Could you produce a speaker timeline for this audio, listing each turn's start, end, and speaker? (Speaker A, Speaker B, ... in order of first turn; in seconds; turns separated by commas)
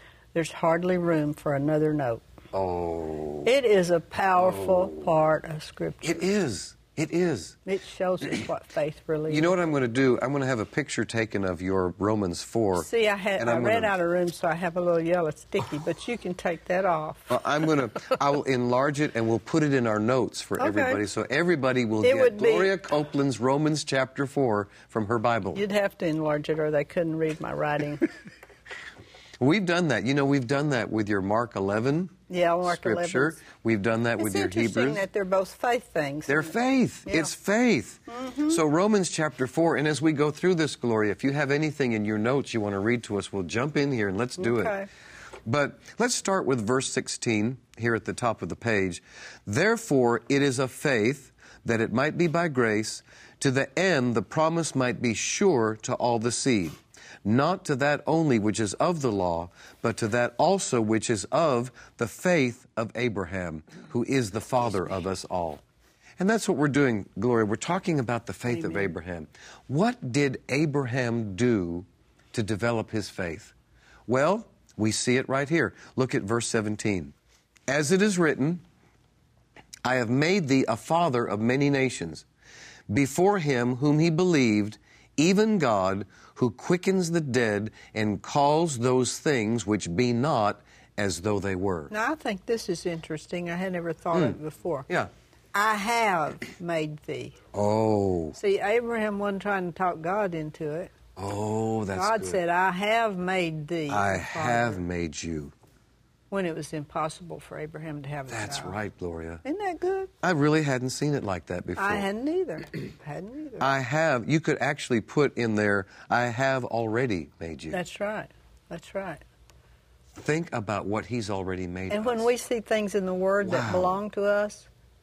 Speaker A: 0.3-2.2, Speaker B: 2.5-3.5, Speaker A: 3.4-6.2, Speaker B: 4.4-5.1, Speaker B: 6.0-7.6, Speaker A: 7.7-9.5, Speaker B: 9.3-13.9, Speaker A: 12.7-17.3, Speaker B: 17.3-25.6, Speaker A: 20.6-21.0, Speaker A: 22.0-22.7, Speaker A: 25.5-28.1, Speaker B: 29.4-35.0, Speaker A: 32.3-33.4, Speaker A: 34.2-36.5, Speaker B: 36.3-44.8, Speaker A: 37.0-37.3, Speaker A: 38.1-38.6, Speaker A: 44.4-44.9, Speaker B: 45.5-65.6, Speaker B: 66.2-73.5, Speaker A: 68.5-68.9, Speaker B: 74.1-77.1, Speaker B: 77.7-78.6, Speaker B: 79.8-82.2, Speaker B: 82.9-91.9, Speaker A: 91.9-94.9, Speaker A: 95.5-97.3, Speaker B: 97.5-98.3, Speaker A: 98.3-100.9, Speaker B: 101.2-102.4, Speaker A: 101.9-104.8, Speaker B: 103.9-105.5, Speaker A: 106.3-108.8, Speaker B: 108.3-109.4, Speaker A: 109.4-110.1, Speaker B: 110.2-112.0, Speaker A: 111.8-113.7, Speaker B: 113.6-117.8, Speaker A: 117.7-119.2, Speaker B: 120.1-122.3, Speaker A: 121.9-124.7, Speaker B: 123.4-124.0